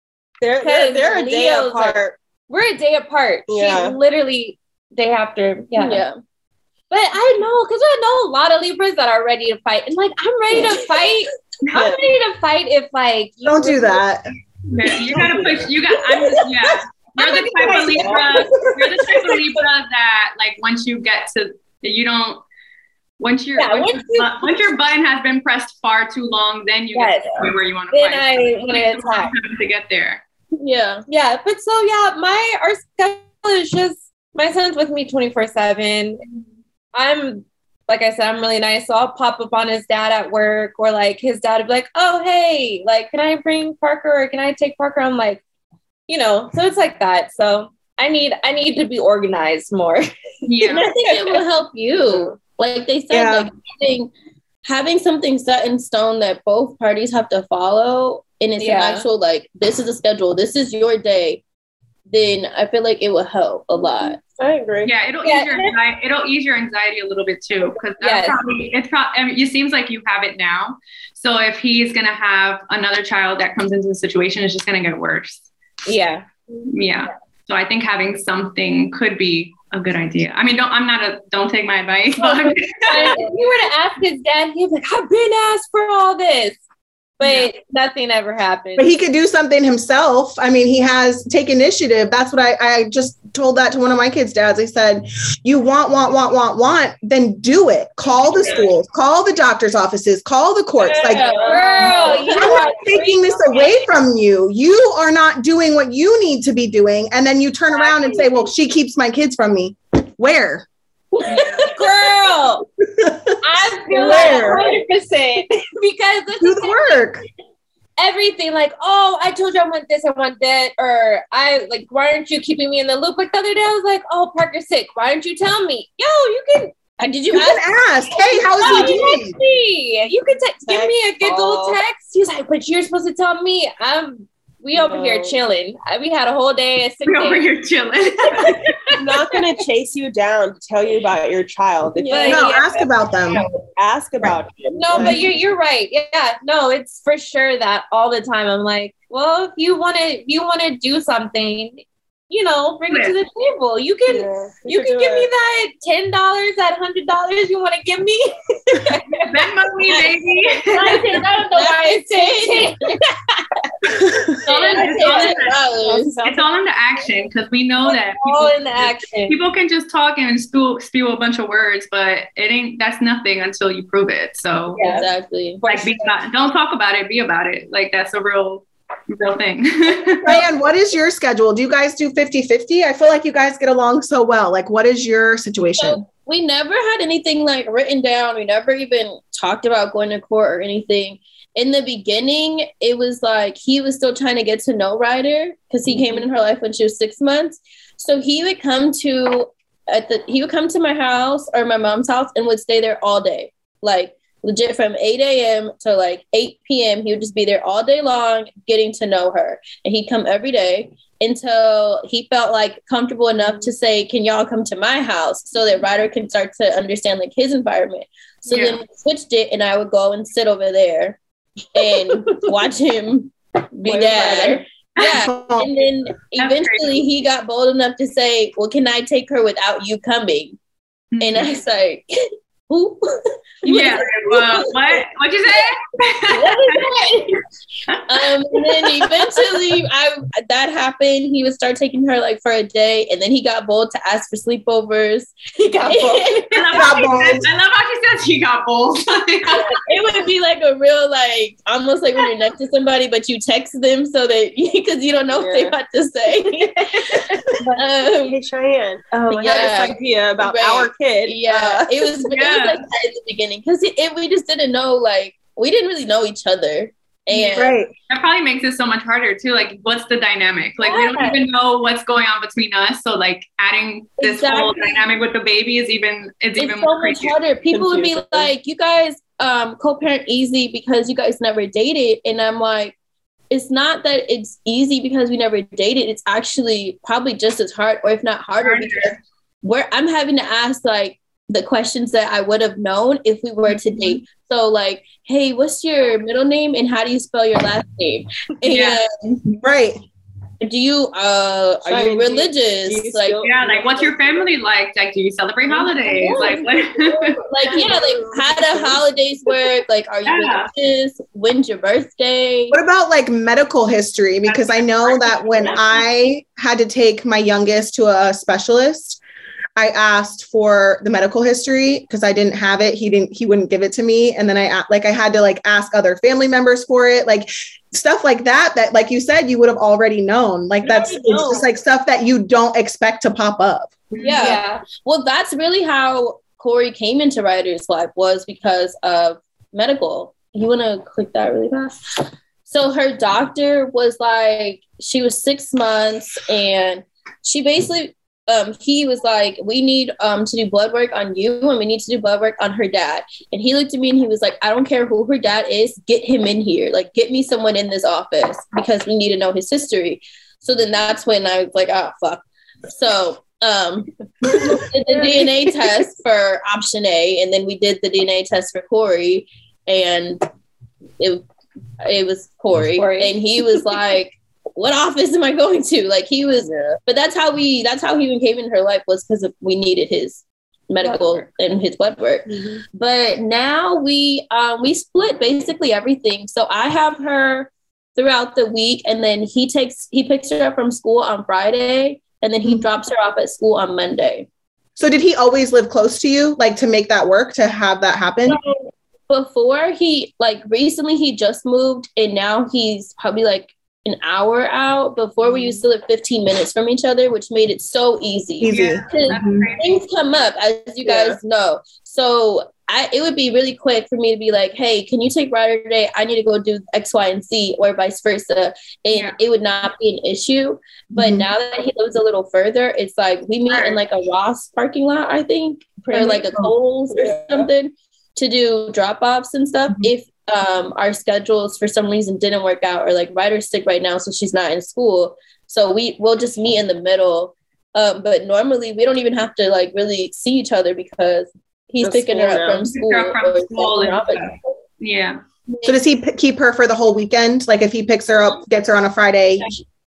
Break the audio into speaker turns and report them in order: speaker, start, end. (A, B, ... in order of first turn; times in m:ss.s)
0:00.4-0:02.2 A
0:00.6-0:06.1 B
0:03.5-0:04.0 A
0:05.8-0:06.1 C
0:06.9-0:14.0 B
0:11.7-0:12.0 A
0:13.4-0:14.2 D
0:14.7-0:22.4 E
0:15.1-0:15.4 D
0:16.2-0:16.6 B
0:17.2-0:18.4 B
0:17.7-0:18.4 A
0:19.0-0:19.6 B
0:23.2-0:30.2 E
0:23.6-0:24.6 B
0:26.9-0:29.3 B
0:30.6-0:31.0 C
0:31.1-0:36.2 B
0:36.9-0:45.4 B
0:46.1-0:50.1 B
0:50.4-0:50.9 E
0:50.7-0:54.1 C
0:51.1-0:51.4 B
0:53.1-0:53.5 D
0:54.6-1:01.4 C
0:58.6-0:59.1 B
1:02.1-1:04.2 C
1:04.3-1:04.9 A
1:04.8-1:15.5 E
1:05.2-1:05.8 B
1:08.0-1:08.4 B
1:15.9-1:16.2 B
1:16.7-1:23.3 E
1:22.2-1:26.6 B
1:27.2-1:28.9 B
1:27.2-1:27.5 E
1:28.8-1:41.4 D
1:40.9-1:43.8 B
1:40.9-1:42.7 A
1:41.1-1:42.6 C
1:42.1-1:50.6 D
1:47.8-1:48.3 B
1:51.2-1:52.6 B
1:51.3-1:51.7 E
1:52.8-1:54.8 D
1:53.4-1:57.1 B
1:54.2-1:54.6 A
1:56.4-1:57.2 D
1:58.0-2:06.8 B
2:07.0-2:07.6 C
2:07.3-2:09.4 D
2:08.3-2:17.4 B
2:10.6-2:11.8 A
2:14.7-2:15.4 A
2:17.0-2:18.6 E
2:18.4-2:19.4 B
2:19.0-2:22.6 A
2:22.0-2:22.8 B
2:22.3-2:23.4 D
2:23.8-2:25.4 A
2:24.7-2:40.1 B
2:32.9-2:33.2 E
2:34.1-2:35.3 A
2:39.3-2:41.2 E
2:40.6-2:43.4 B
2:41.5-2:42.8 C
2:44.5-2:46.2 C
2:44.5-2:45.6 E
2:44.5-2:45.3 B
2:45.8-2:46.4 A
2:46.2-2:54.8 E
2:47.8-2:49.4 B
2:54.8-2:55.1 B
2:54.8-2:55.6 C
2:55.6-2:56.1 B
2:55.6-3:00.4 E
3:00.2-3:06.0 D
3:05.8-3:41.2 C
3:15.9-3:16.2 A
3:38.5-3:38.8 E
3:41.7-3:50.6 C
3:43.8-3:44.6 A
3:45.0-3:45.7 D
3:46.4-3:46.9 E
3:51.1-3:51.6 E
3:51.2-3:54.7 C
3:53.6-3:57.0 E
3:56.3-3:57.4 C
3:57.9-3:58.6 E
3:58.1-4:06.8 C
4:05.6-4:06.3 B
4:06.5-4:09.6 E
4:06.7-4:07.5 D
4:09.5-4:18.4 C
4:15.3-4:15.7 A
4:17.6-4:22.2 A
4:19.3-4:27.8 C
4:22.3-4:22.8 E
4:27.5-4:27.9 D
4:28.1-4:37.4 E
4:30.8-4:31.3 C
4:34.2-4:35.0 C
4:36.6-4:43.0 C
4:37.7-4:38.5 A
4:43.5-4:59.1 C
4:48.6-4:49.2 E
4:58.7-4:59.0 E
4:59.5-5:00.0 D
5:00.6-5:03.4 C
5:01.8-5:04.5 A
5:03.4-5:07.4 E
5:06.2-5:06.6 C
5:07.4-5:12.8 C
5:07.7-5:09.0 A
5:10.3-5:10.7 E
5:12.7-5:19.2 D
5:14.5-5:16.0 E
5:19.8-5:34.0 D
5:30.8-5:31.6 B
5:34.1-5:34.5 E
5:34.2-5:42.0 C
5:34.3-5:34.8 B
5:42.6-6:10.5 C
6:12.0-6:34.5 C
6:13.0-6:13.3 B
6:16.6-6:17.0 A
6:22.5-6:22.8 A
6:35.0-6:38.6 D
6:39.3-7:24.7 C
6:45.4-6:45.8 A
6:48.6-6:49.7 D
6:48.7-6:50.0 E
6:51.0-6:51.4 A
7:01.1-7:01.5 D
7:07.2-7:07.7 A
7:22.0-7:22.8 A
7:22.9-7:25.4 E
7:25.7-7:26.0 C
7:25.8-7:29.7 D